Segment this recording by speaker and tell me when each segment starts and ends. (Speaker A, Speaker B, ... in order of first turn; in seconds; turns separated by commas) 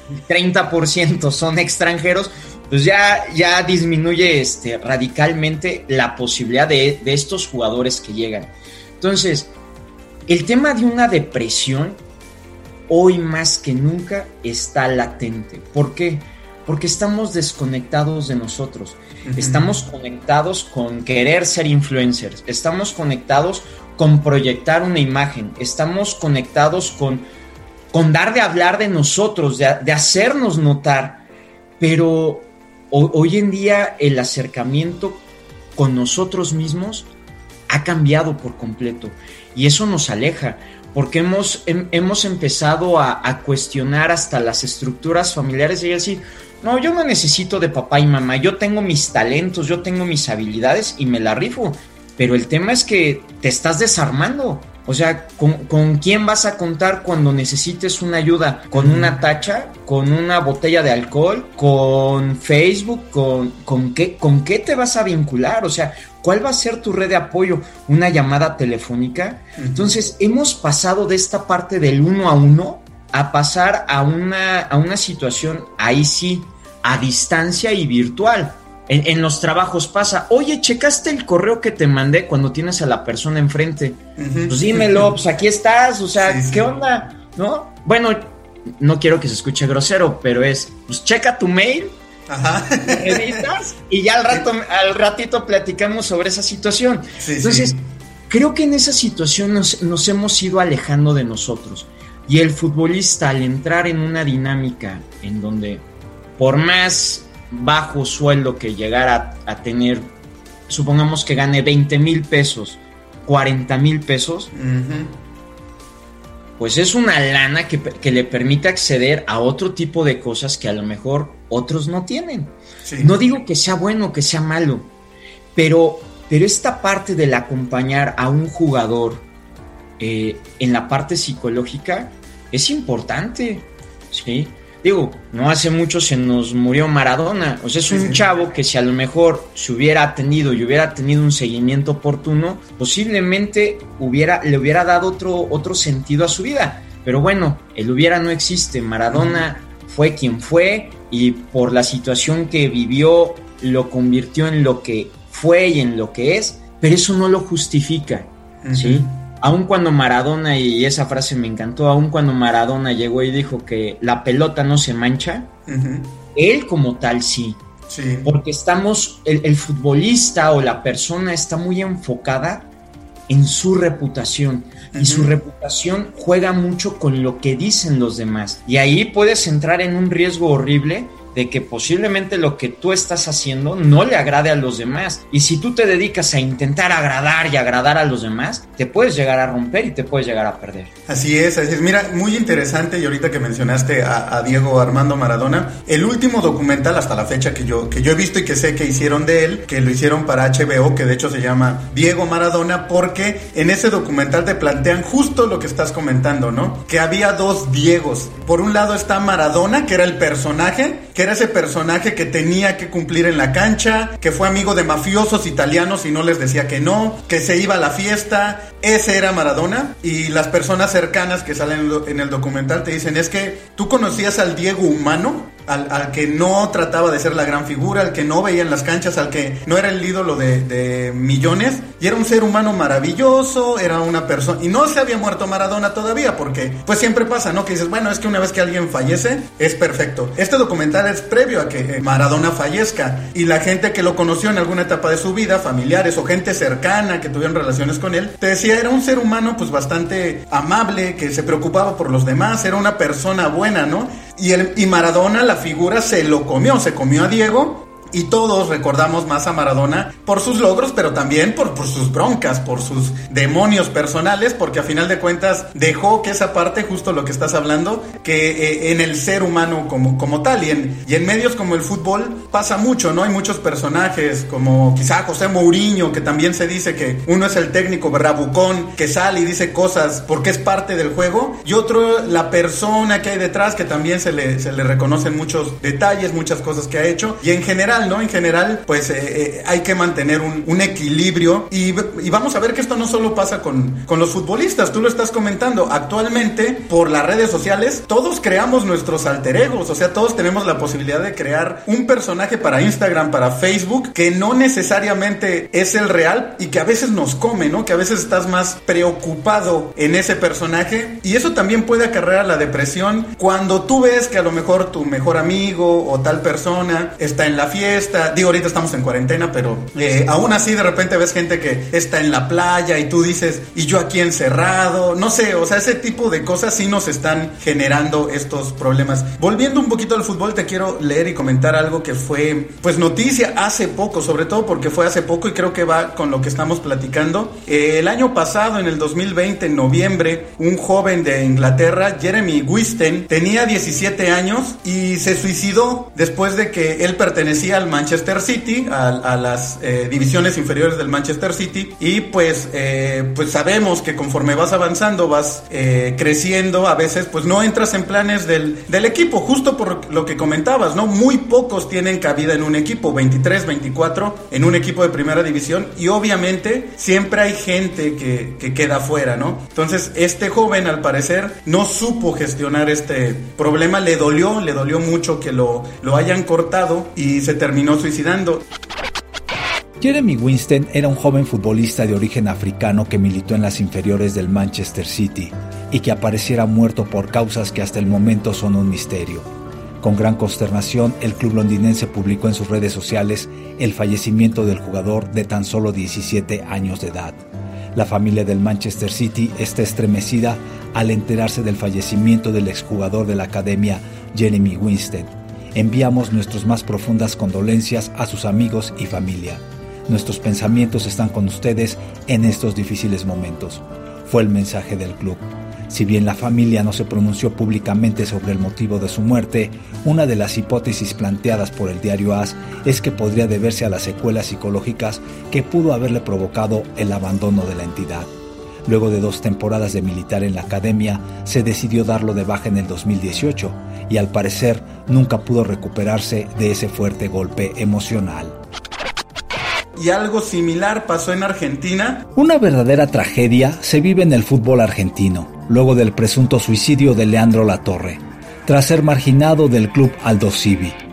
Speaker A: 0.3-9.5, Speaker A: 10.3-12.0, Speaker A: 12.9-27.3, Speaker B: 19.2-19.7, Speaker A: 27.9-31.2, Speaker A: 31.8-35.2, Speaker A: 35.8-37.1, Speaker A: 37.7-92.0, Speaker B: 58.7-59.2, Speaker B: 69.6-70.0, Speaker B: 84.2-85.1, Speaker B: 86.2-86.7, Speaker B: 92.3-93.5, Speaker A: 92.8-97.8, Speaker B: 97.2-97.8, Speaker A: 98.3-105.8, Speaker A: 106.4-110.1, Speaker A: 110.7-114.5, Speaker B: 114.5-115.1, Speaker A: 116.6-124.9, Speaker B: 122.8-123.2, Speaker A: 125.5-129.3, Speaker A: 130.0-165.5, Speaker B: 137.9-138.2, Speaker B: 149.1-149.5, Speaker B: 158.6-159.2, Speaker B: 165.7-166.2, Speaker A: 166.3-167.6, Speaker B: 167.9-168.3, Speaker A: 168.2-172.7, Speaker A: 173.3-190.9, Speaker B: 174.9-175.3, Speaker B: 191.1-378.6, Speaker C: 380.0-389.5, Speaker C: 390.0-397.4, Speaker C: 397.9-428.3, Speaker C: 428.9-438.6, Speaker B: 439.9-442.3, Speaker C: 442.4-451.0